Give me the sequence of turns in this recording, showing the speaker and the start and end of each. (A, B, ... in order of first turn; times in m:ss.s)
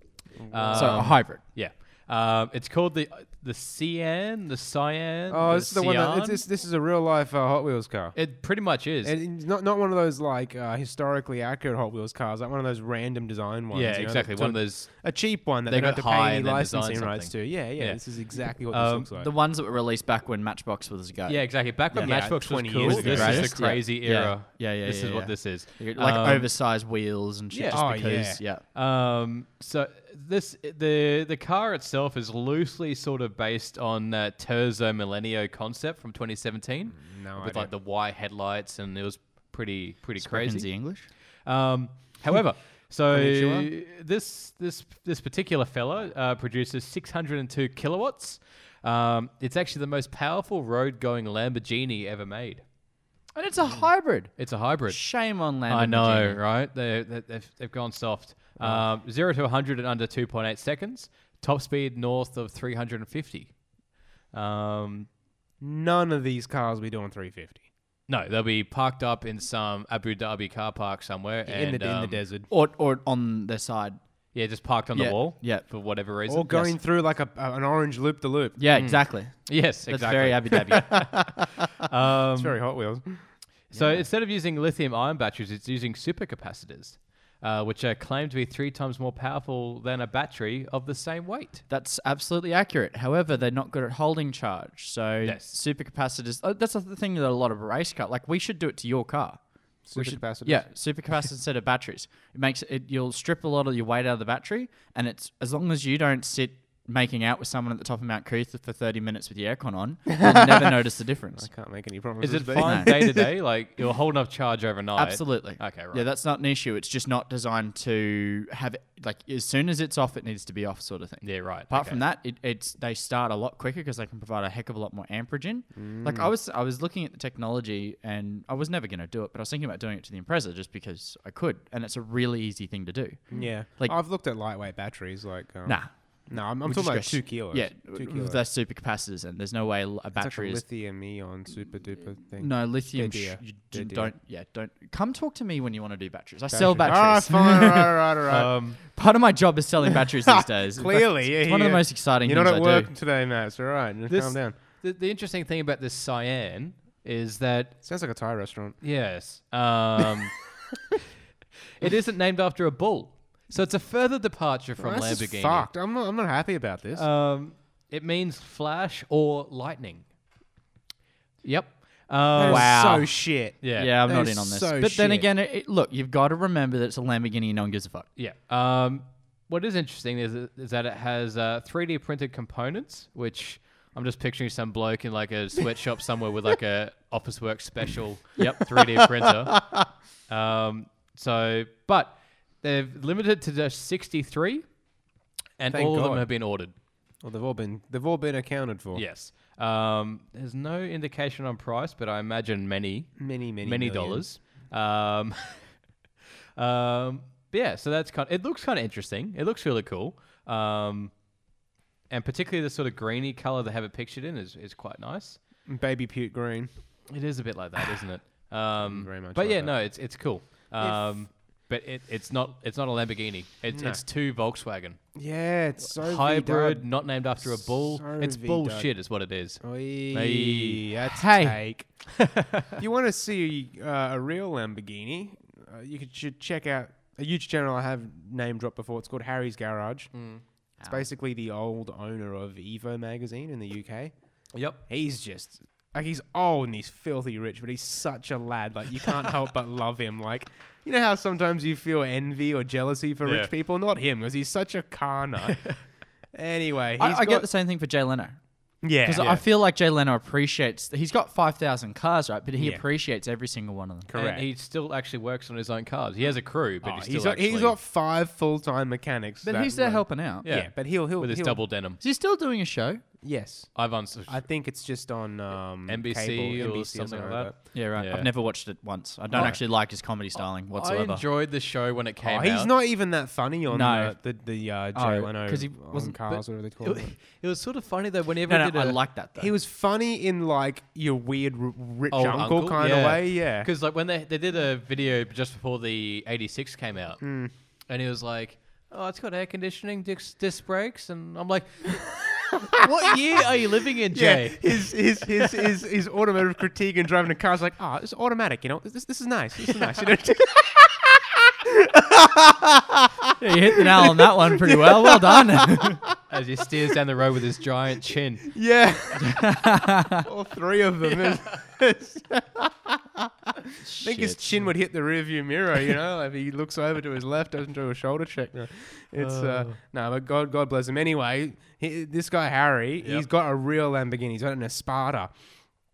0:00.4-0:01.2 A
0:00.5-0:06.4 B
0:00.7-0:01.4 C
0:05.3-0:08.2 A
0:08.2-0:09.2 B
0:09.0-0:19.3 A
0:13.7-0:18.0 B
0:18.7-0:19.1 B
0:19.2-0:28.6 C
0:21.3-0:26.5 B
0:22.0-0:23.6 A
0:27.5-0:27.8 B
0:27.7-0:28.4 A
0:28.7-0:40.7 B
0:36.9-0:37.7 A
0:40.2-0:41.1 C
0:41.4-0:52.6 B
0:43.1-0:43.7 A
0:53.3-0:56.4 C
0:54.4-0:55.0 B
0:55.7-1:03.5 B
1:04.3-1:05.1 B
1:05.6-1:07.6 A
1:08.1-1:12.2 B
1:11.5-1:12.5 A
1:12.5-1:14.0 C
1:14.3-1:16.7 B
1:14.9-1:15.6 C
1:16.3-1:18.6 A
1:18.6-1:20.9 C
1:18.7-1:22.6 B
1:22.3-1:23.2 A
1:23.7-1:31.6 B
1:31.7-1:39.4 C
1:35.2-1:35.6 B
1:39.8-1:40.7 A
1:39.9-1:51.5 C
1:50.2-1:50.7 A
1:51.4-1:53.3 A
1:52.2-1:56.1 B
1:52.6-1:52.9 C
1:55.0-2:14.0 C
2:01.2-2:02.0 B
2:05.8-2:06.3 A
2:13.3-2:18.4 A
2:16.6-2:20.6 C
2:20.2-2:24.1 A
2:22.4-2:28.0 C
2:26.5-2:28.5 A
2:28.3-2:28.8 B
2:28.9-2:32.9 C
2:30.5-2:34.5 A
2:34.1-2:37.8 B
2:37.8-2:38.8 A
2:38.8-2:40.4 B
2:41.8-2:45.7 B
2:44.8-2:47.0 A
2:46.9-2:50.0 B
2:51.4-2:53.9 B
2:52.3-2:55.3 A
2:52.4-2:52.7 C
2:53.8-2:58.1 C
2:58.2-3:14.6 B
3:08.4-3:08.6 C
3:08.9-3:09.8 A
3:15.6-3:16.7 B
3:15.7-3:16.3 A
3:17.2-3:19.0 A
3:18.9-3:25.6 B
3:23.2-3:24.2 A
3:26.6-3:31.1 B
3:32.1-3:35.4 B
3:35.6-3:36.7 A
3:37.1-3:45.0 B
3:38.8-3:39.8 A
3:43.7-3:44.0 A
3:45.2-3:48.9 A
3:46.0-3:50.8 B
3:49.6-3:52.0 A
3:51.1-3:51.6 C
3:52.2-3:52.7 B
3:52.8-4:00.1 A
4:00.1-4:00.4 B
4:00.8-4:04.1 A
4:04.5-4:04.8 B
4:04.8-4:15.6 A
4:13.2-4:13.5 B
4:15.4-4:15.8 B
4:16.3-4:17.5 A
4:17.0-4:18.4 C
4:18.8-4:19.4 A
4:19.0-4:24.1 C
4:22.6-4:22.8 A
4:24.1-4:24.5 A
4:24.1-4:27.8 B
4:26.8-4:31.6 A
4:29.4-4:30.5 C
4:30.4-4:32.0 B
4:32.0-4:33.0 C
4:33.2-4:37.6 A
4:33.8-4:34.4 B
4:35.9-4:38.3 B
4:37.7-4:41.2 C
4:39.3-4:39.6 A
4:40.4-4:42.7 B
4:42.2-4:47.1 A
4:43.7-4:44.2 C
4:44.9-4:46.2 C
4:46.3-4:49.0 B
4:48.5-4:49.5 C
4:49.4-4:53.7 A
4:52.1-4:57.2 B
4:57.2-4:57.5 A
4:57.9-5:05.0 B
5:02.0-5:15.9 A
5:13.4-5:16.0 C
5:16.3-5:18.6 B
5:18.5-5:35.3 A
5:19.2-5:20.3 C
5:21.0-5:21.6 B
5:23.8-5:24.6 C
5:29.2-5:29.7 B